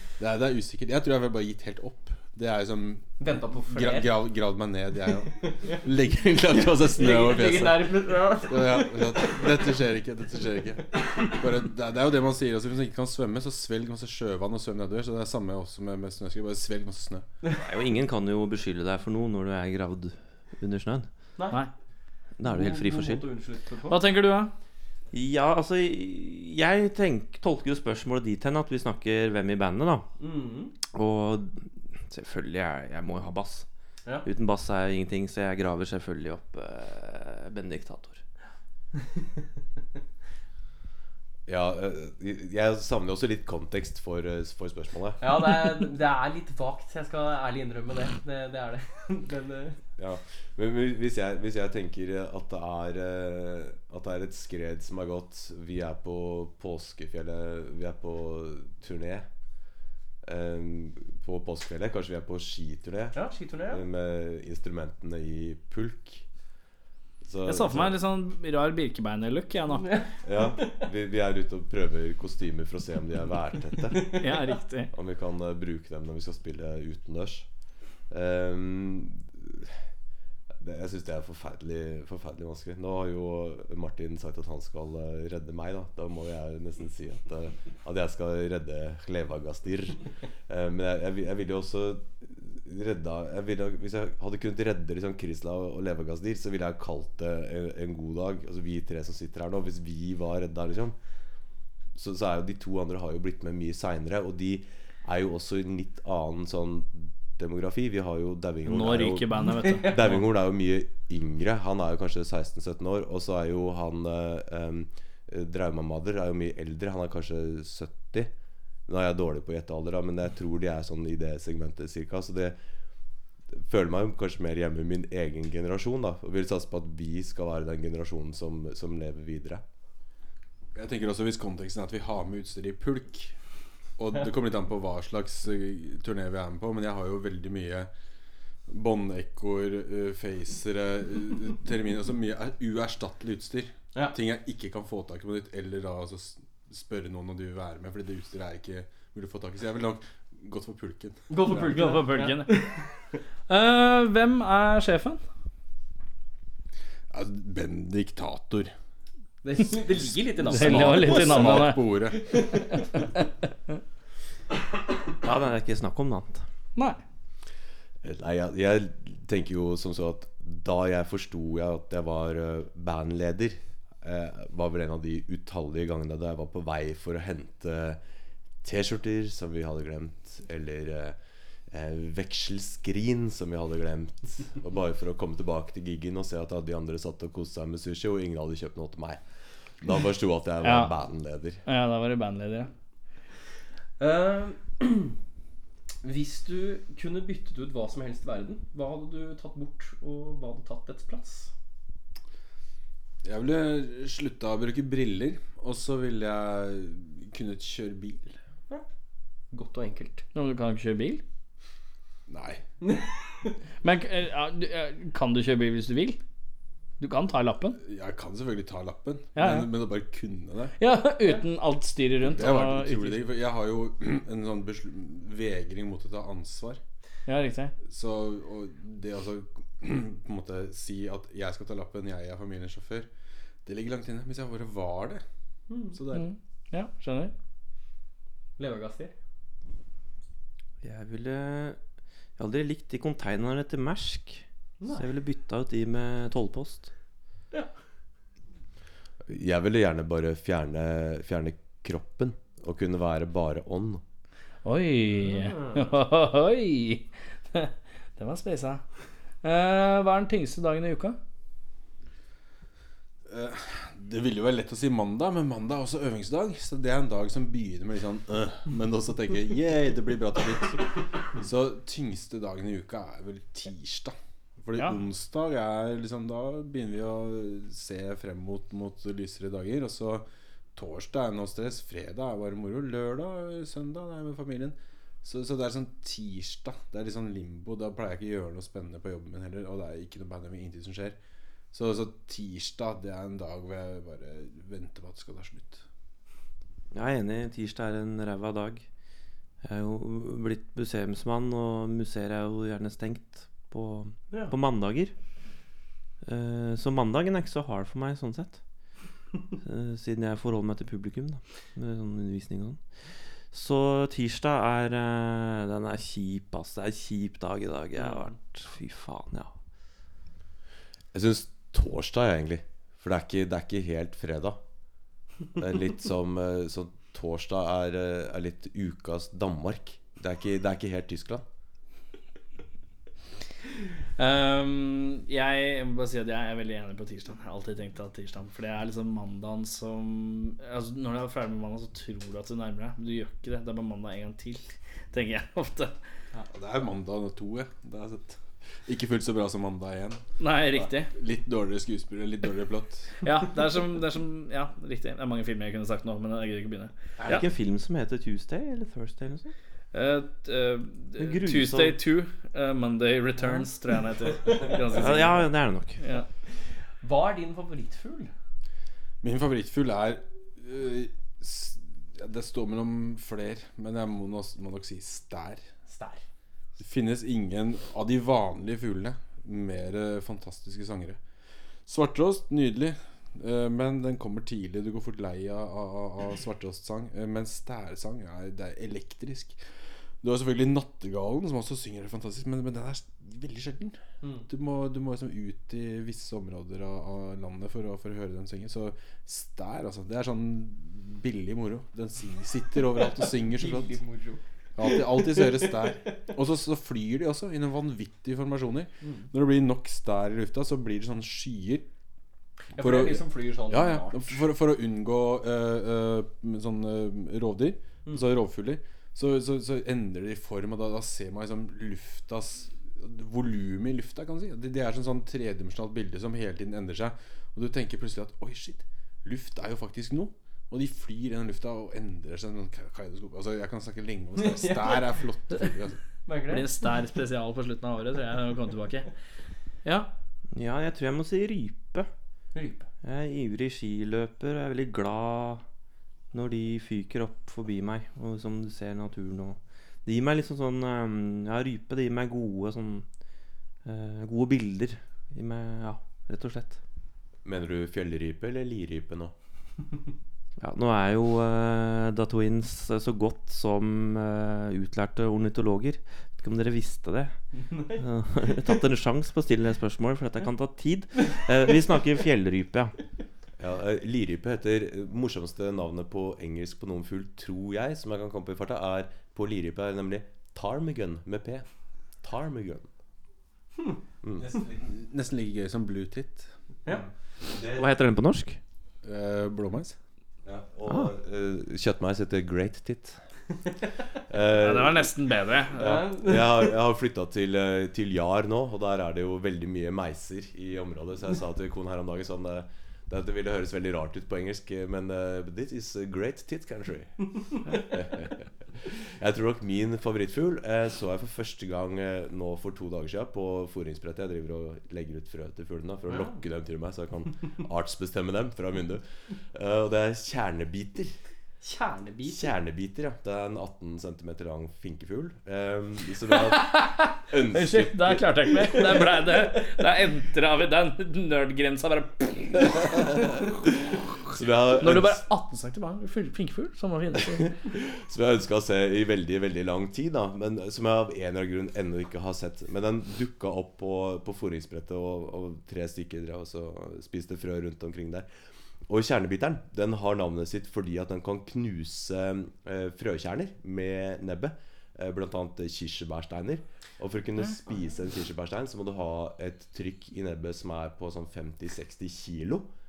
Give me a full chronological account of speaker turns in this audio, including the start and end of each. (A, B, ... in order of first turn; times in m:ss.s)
0:00.2-0:17.2 A
0:03.2-0:04.2 B
0:05.2-0:05.9 B
0:06.9-0:09.6 B
0:17.6-0:21.1 C
0:21.4-0:21.6 B
0:22.4-0:23.3 C
0:22.4-0:24.0 B
0:23.9-0:24.5 D
0:25.1-0:30.1 C
0:30.2-0:30.7 B
0:30.9-0:33.7 C
0:34.2-0:38.2 C
0:41.5-0:45.2 E
0:45.2-0:49.8 B
0:50.0-0:59.3 E
1:00.2-1:06.2 E
1:03.1-1:03.8 B
1:07.2-1:08.0 E
1:07.4-1:09.9 D
1:09.8-1:10.8 B
1:10.2-1:14.2 E
1:14.0-1:14.9 D
1:14.9-1:17.5 E
1:18.1-1:19.8 E
1:20.6-1:40.9 E
1:41.9-1:58.3 E
1:48.6-1:50.2 D
1:49.5-1:50.2 B
1:58.9-2:02.6 E
2:03.5-2:09.6 E
2:10.7-2:13.3 A
2:14.0-2:17.9 A
2:18.7-2:31.8 A
2:31.3-2:32.9 B
2:31.4-2:32.6 D
2:33.5-2:35.2 D
2:37.1-2:38.7 A
2:39.4-2:42.9 B
2:40.4-2:42.3 A
2:40.5-2:41.9 D
2:45.2-2:46.4 C
2:48.0-2:58.0 E
2:58.6-3:01.2 E
3:01.7-3:11.6 E
3:10.6-3:10.9 D
3:11.6-3:12.7 D
3:14.0-3:15.2 B
3:16.0-3:21.5 B
3:23.2-3:28.4 A
3:29.5-3:30.2 B
3:30.3-3:31.2 D
3:32.3-3:32.6 A
3:32.8-3:33.5 B
3:33.8-3:36.2 D
3:37.0-3:37.8 D
3:37.8-3:40.7 A
3:39.3-3:39.7 D
3:40.8-3:43.2 D
3:42.2-3:46.8 A
3:47.3-3:47.7 D
3:47.9-3:53.1 A
3:53.6-3:55.2 A
3:55.7-3:56.0 B
3:55.9-3:56.3 A
3:56.1-3:57.3 D
3:58.6-3:59.1 B
4:00.8-4:01.8 C
4:02.4-4:06.9 C
4:09.3-4:14.0 E
4:14.6-4:18.8 D
4:15.2-4:16.0 B
4:19.4-4:21.2 D
4:23.2-4:51.2 A
4:51.7-4:55.8 A
4:56.9-4:58.9 C
4:59.6-5:05.2 C
5:06.2-5:09.0 C
5:09.6-5:19.5 C
5:18.0-5:18.3 B
5:21.1-5:24.6 E
5:25.6-5:31.4 E
5:34.2-5:45.9 D
5:46.4-5:50.2 A
5:50.4-5:51.1 D
5:50.8-5:53.1 A
5:53.2-5:57.4 D
5:57.2-5:59.5 C
5:59.9-6:05.4 D
6:01.2-6:02.0 C
6:04.9-6:06.0 C
6:06.0-6:06.2 D
6:06.5-6:08.3 B
6:09.2-6:15.7 A
6:15.9-6:16.2 B
6:16.8-6:21.2 A
6:21.8-6:29.6 A
6:30.2-6:44.0 A
6:34.2-6:34.5 B
6:42.8-6:46.2 B
6:44.8-6:51.9 A
6:52.7-6:54.4 B
6:52.8-7:16.0 A
7:14.4-7:15.1 B
7:16.2-7:16.7 B
7:16.5-7:19.1 D
7:19.8-7:20.1 D
7:20.5-7:22.1 C
7:22.5-7:22.9 B
7:23.0-7:25.6 C
7:26.3-7:33.1 C
7:33.8-7:36.8 C
7:37.4-7:39.3 E
7:40.6-7:52.9 C
7:53.6-8:02.9 E
8:04.2-8:04.5 E
8:04.4-8:06.5 A
8:06.9-8:07.9 E
8:07.7-8:08.6 C
8:09.0-8:10.0 A
8:10.4-8:13.2 E
8:10.9-8:11.1 C
8:14.3-8:15.1 E
8:14.6-8:16.0 D
8:15.8-8:41.1 E
8:15.8-8:16.7 B
8:36.1-8:36.4 B
8:41.6-8:42.4 B
8:42.2-8:48.3 E
8:46.3-8:53.2 D
8:52.9-8:55.2 E
8:54.8-8:57.5 D
8:57.2-9:08.3 E
9:08.9-9:22.7 E